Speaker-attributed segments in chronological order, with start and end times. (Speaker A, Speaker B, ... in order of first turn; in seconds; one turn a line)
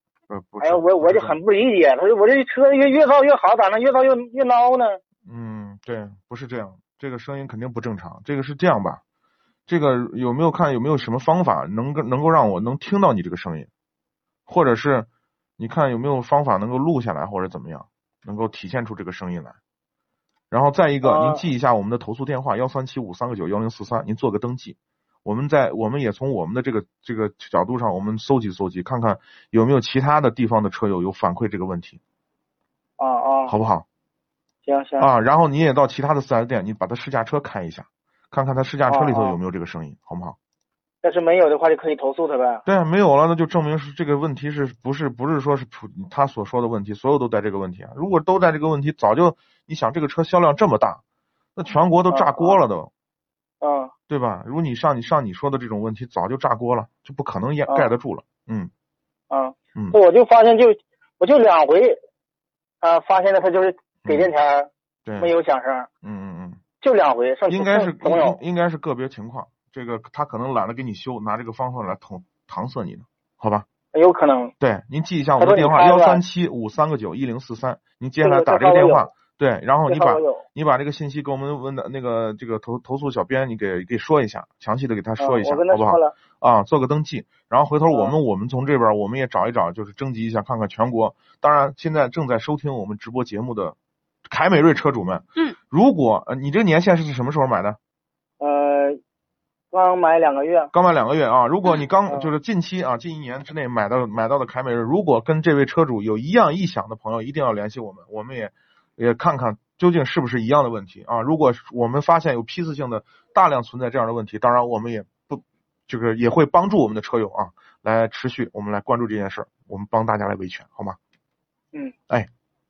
Speaker A: 0.3-1.4
Speaker B: 0.6-5.0
Speaker A: 5.3-9.0
Speaker A: 9.7-13.7
Speaker A: 14.5-15.1
Speaker A: 15.6-19.6
Speaker A: 20.5-32.0
Speaker B: 21.0-21.4
Speaker B: 33.0-33.5
Speaker A: 33.5-33.9
Speaker B: 34.6-35.1
Speaker A: 35.0-40.4
Speaker B: 38.9-39.4
Speaker B: 41.0-42.6
Speaker A: 42.7-51.0
Speaker A: 51.6-52.9
Speaker B: 52.1-52.6
Speaker B: 53.6-53.9
Speaker A: 54.1-58.7
Speaker B: 57.7-57.9
Speaker B: 59.3-62.0
Speaker B: 62.8-65.9
Speaker A: 64.0-64.3
Speaker A: 65.1-65.3
Speaker A: 66.0-66.6
Speaker B: 66.8-68.4
Speaker A: 67.5-73.7
Speaker B: 73.9-74.5
Speaker A: 74.6-93.8
Speaker B: 75.4-76.2
Speaker B: 78.2-79.1
Speaker B: 79.9-80.5
Speaker B: 85.2-86.2
Speaker A: 94.3-97.8
Speaker B: 98.4-99.0
Speaker B: 99.7-100.7
Speaker A: 100.7-121.0